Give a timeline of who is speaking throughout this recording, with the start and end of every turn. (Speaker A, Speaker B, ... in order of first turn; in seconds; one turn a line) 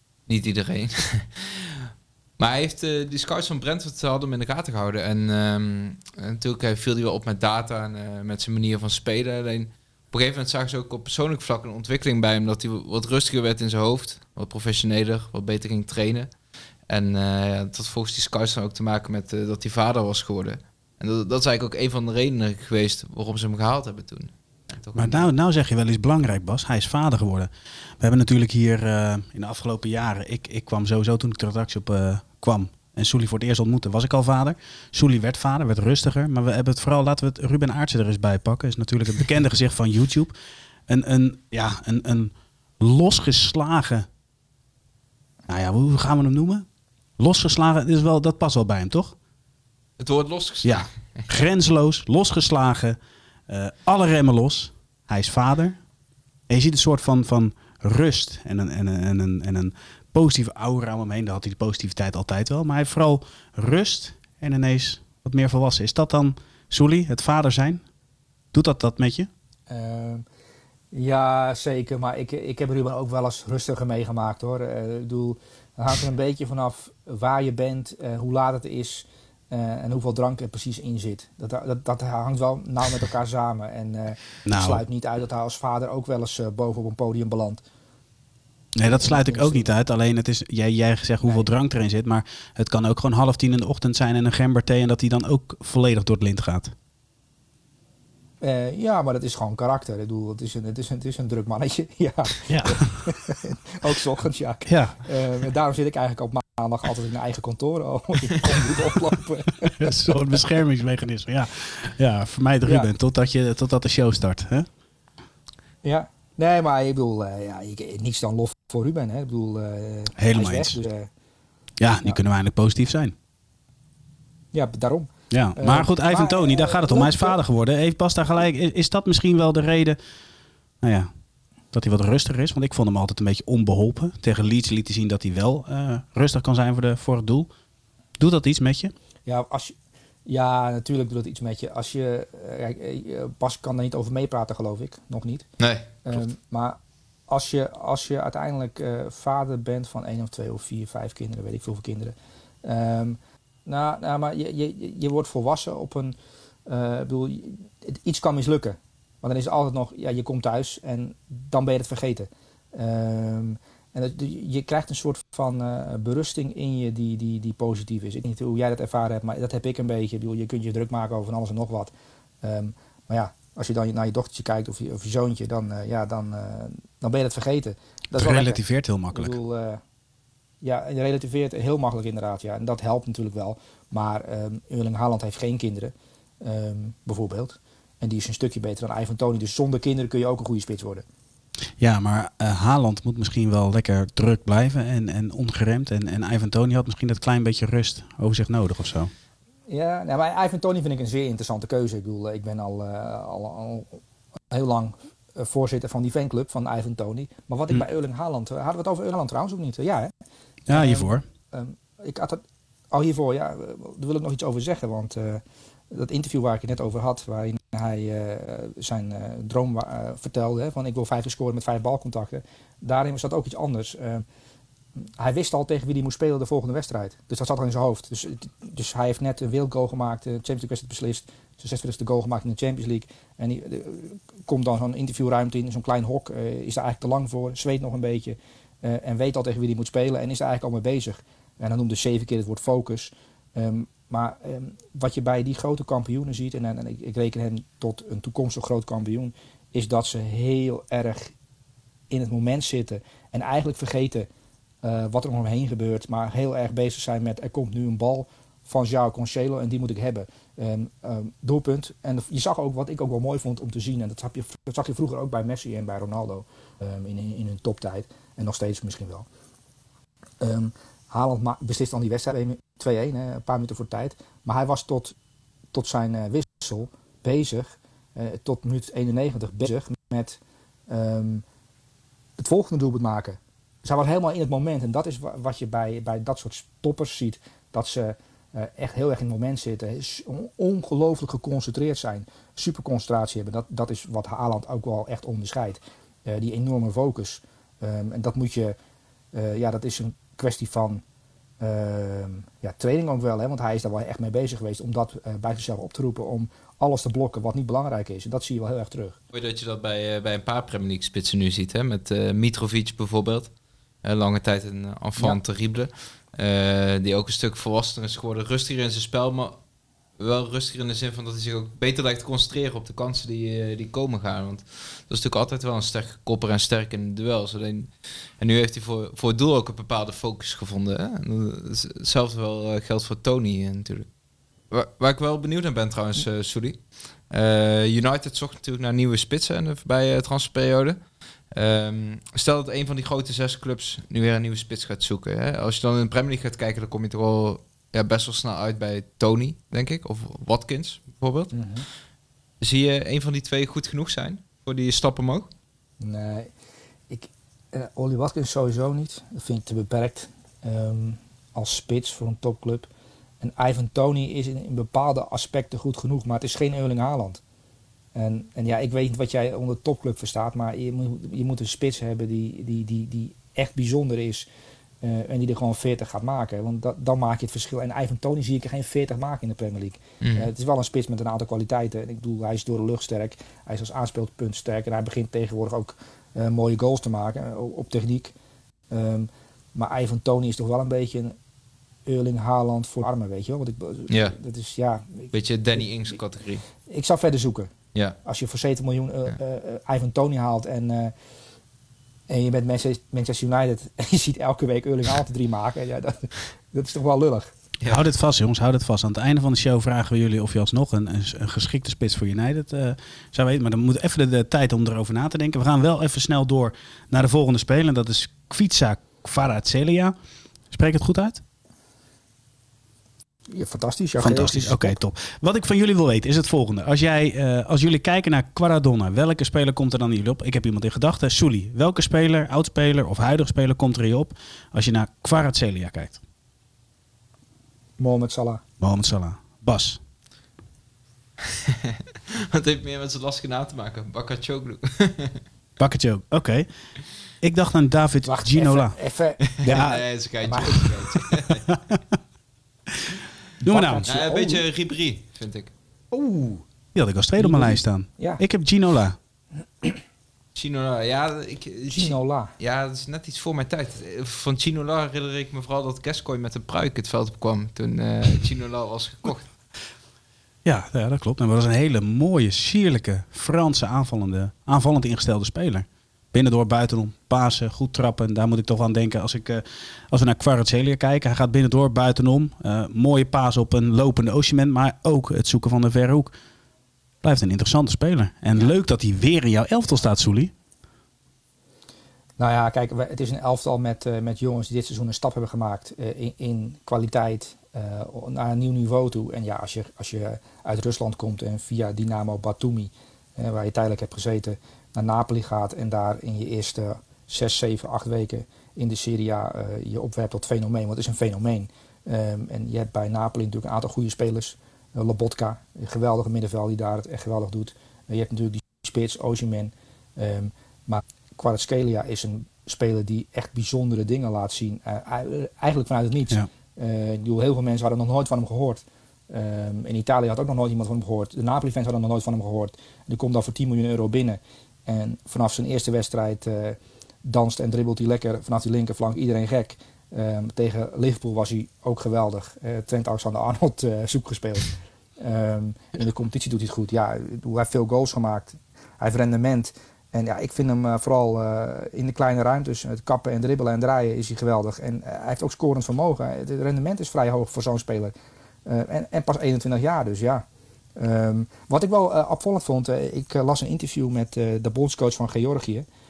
Speaker A: 0.3-16.4
Speaker A: 16.9-25.3
Speaker B: 24.9-40.3
Speaker B: 40.9-44.1
Speaker B: 45.5-46.6
Speaker B: 47.2-49.1
Speaker A: 50.0-51.3
Speaker B: 50.6-55.8
Speaker B: 56.5-67.8
Speaker B: 68.5-69.3
Speaker C: 69.7-70.2
Speaker C: 70.9-87.6
Speaker B: 84.5-84.8
Speaker B: 88.7-96.7
Speaker C: 88.9-89.7
Speaker C: 91.2-91.5
Speaker C: 98.4-110.3
Speaker B: 102.5-103.1
Speaker B: 104.7-105.0
Speaker B: 109.6-114.7
Speaker C: 112.6-112.9
Speaker C: 115.8-121.1
Speaker B: 120.2-120.8
Speaker B: 121.8-123.1
Speaker C: 124.5-127.4
Speaker B: 125.3-130.0
Speaker B: 130.8-131.1
Speaker B: 131.7-137.5
Speaker B: 138.2-138.9
Speaker C: 139.2-139.7
Speaker C: 140.2-145.4
Speaker A: 145.6-145.9
Speaker C: 146.0-146.8
Speaker C: 147.3-156.2
Speaker C: 156.7-179.8
Speaker B: 178.1-179.4
Speaker C: 180.6-191.0
Speaker B: 191.8-199.1
Speaker C: 199.7-204.0
Speaker C: 204.5-210.1
Speaker B: 210.7-211.2
Speaker C: 210.7-224.2
Speaker C: 225.2-251.3
Speaker C: 252.1-254.3
Speaker C: 254.8-269.2
Speaker C: 270.4-275.1
Speaker C: 275.7-281.4
Speaker C: 282.4-298.7
Speaker C: 299.3-301.0
Speaker C: 301.6-309.2
Speaker A: 309.3-319.6
Speaker A: 320.2-334.1
Speaker A: 334.7-351.6
Speaker C: 351.5-351.9
Speaker A: 352.6-355.5
Speaker C: 356.0-356.5
Speaker C: 357.1-362.9
Speaker C: 363.4-367.4
Speaker C: 368.1-374.4
Speaker C: 375.0-388.3
Speaker A: 380.2-380.5
Speaker C: 388.9-391.4
Speaker C: 392.1-395.9
Speaker A: 394.1-394.4
Speaker A: 395.3-396.6
Speaker C: 396.9-397.7
Speaker C: 398.2-401.1
Speaker C: 402.3-407.5
Speaker B: 407.8-420.1
Speaker B: 420.7-421.4
Speaker C: 423.5-425.0
Speaker B: 424.2-436.2
Speaker C: 438.0-438.6
Speaker B: 438.8-440.0
Speaker A: 441.5-445.4
Speaker B: 445.8-449.0
Speaker C: 448.2-451.2
Speaker A: 449.5-451.6
Speaker B: 451.7-452.2
Speaker B: 452.9-454.1
Speaker C: 453.6-454.6
Speaker A: 454.1-455.7
Speaker C: 456.1-456.6
Speaker B: 456.9-459.2
Speaker C: 457.4-458.4
Speaker A: 460.5-469.5
Speaker C: 461.9-462.5
Speaker B: 470.6-486.3
Speaker B: 487.2-490.5
Speaker C: 492.4-558.1
Speaker C: 558.6-560.4
Speaker C: 561.0-565.9